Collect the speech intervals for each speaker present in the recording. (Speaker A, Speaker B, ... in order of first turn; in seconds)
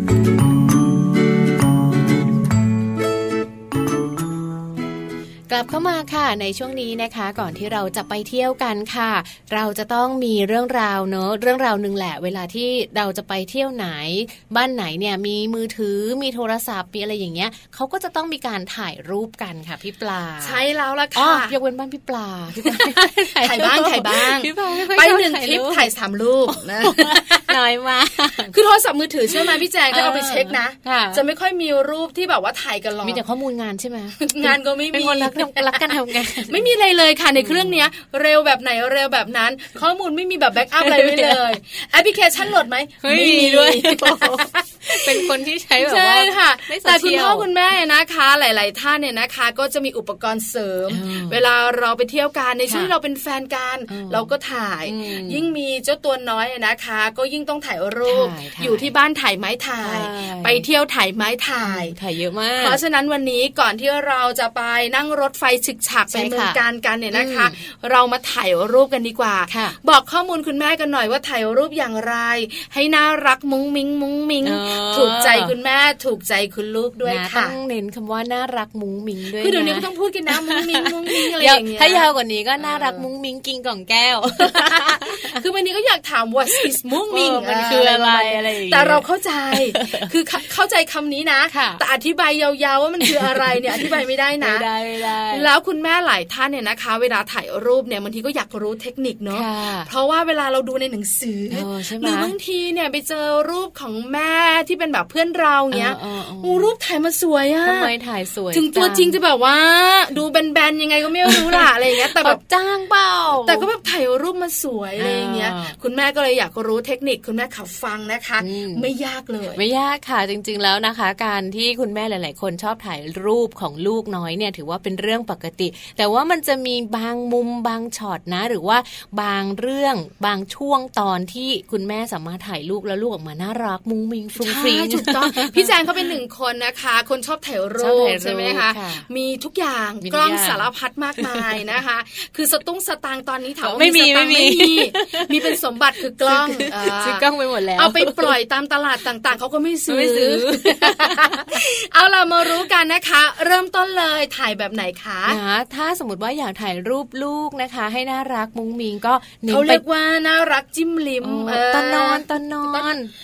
Speaker A: 5.5-20.6, 21.2-25.9, 26.5-28.5, 29.3-31.2, 33.0-36.7, 37.4-37.8, 40.8-41.4, 43.0-47.5, 50.9-51.4, 52.7-52.9, 53.9-54.3, 54.9-55.5, 58.1-58.9, 59.8-60.7, 61.6-62.8, 66.1-66.6, 67.1-67.5, 69.5-69.8, 74.4-75.5, 77.1-85.4, 86.5-89.0, 89.6-90.1, 91.5-91.8, 93.0-93.9, 94.4-95.5, 99.3-99.9, 101.5-102.3, 105.7-106.7, 107.6-109.2, 111.3-113.7, 115.0-115.8, 118.4-118.9, 119.5-136.1, 137.8-139.1, 140.0-140.7, 141.2-141.7, 143.6-145.6, 146.3-148.3, 149.9-151.6, 155.3-159.8, 161.2-163.1
Speaker B: 20.4-21.6, 22.6-27.6, 28.5-33.2, 34.2-36.0, 36.5-62.0, 62.6-77.6, 79.4-82.1, 82.6-83.1, 84.4-94.7, 95.3-107.9, 108.5-112.4, 113.4-119.6, 134.4-155.4, 159.5-162.9